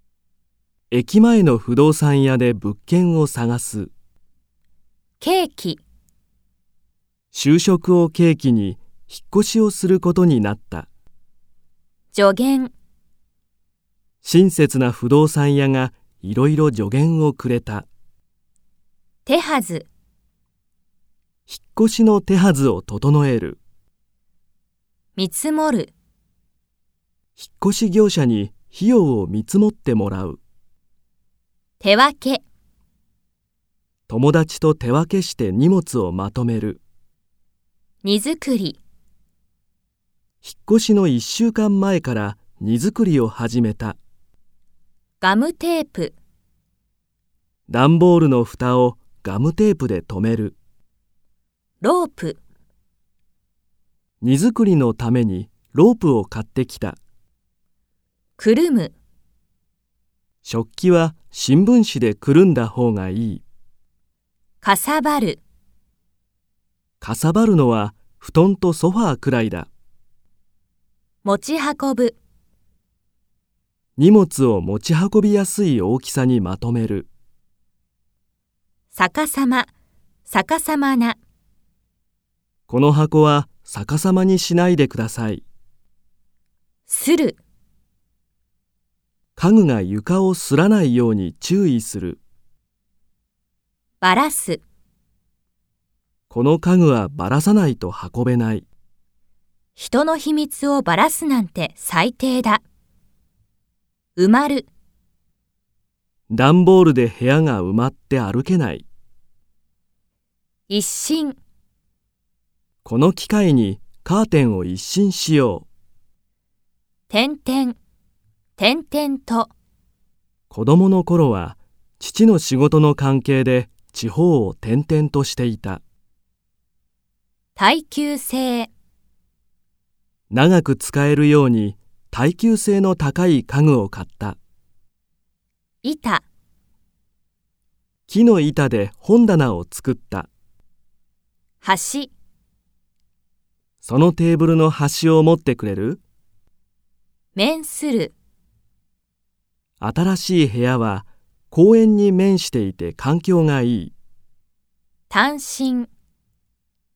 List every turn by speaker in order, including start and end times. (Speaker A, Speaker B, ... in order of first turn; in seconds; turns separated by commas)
Speaker A: 0.9-3.9, Speaker B: 5.2-5.8, Speaker A: 7.3-10.9, Speaker B: 12.1-12.7, Speaker A: 14.2-17.9, Speaker B: 19.2-19.9, Speaker A: 21.5-23.6, Speaker B: 25.1-25.9, Speaker A: 27.4-30.4, Speaker B: 31.8-32.4, Speaker A: 34.1-36.8, Speaker B: 38.0-38.8, Speaker A: 40.4-44.0, Speaker B: 45.2-46.1, Speaker A: 47.7-50.5, Speaker B: 51.8-52.4, Speaker A: 54.2-57.0, Speaker B: 58.4-58.9, Speaker A: 60.4-63.4, Speaker B: 64.6-65.4, Speaker A: 67.0-69.7, Speaker B: 71.2-72.2, Speaker A: 74.0-77.1, Speaker B: 78.9-79.7, Speaker B: 80.3-81.2, Speaker A: 82.7-85.4, Speaker B: 86.9-87.4, Speaker A: 89.4-92.2, Speaker B: 94.0-94.6, Speaker A: 96.3-98.7, Speaker B: 99.8-102.6, Speaker B: 104.2-104.7, Speaker A: 106.3-108.9, Speaker B: 110.7-111.4, Speaker A: 112.8-115.7, Speaker B: 117.1-117.8, Speaker B: 118.6-119.5, Speaker A: 120.5-125.8, Speaker B: 127.6-128.7, Speaker A: 130.3-134.4, Speaker B: 135.8-136.2, Speaker A: 138.1-140.3, Speaker B: 141.6-142.1, Speaker A: 143.8-146.0, Speaker B: 147.3-148.1, Speaker A: 149.8-153.9, Speaker B: 155.1-155.9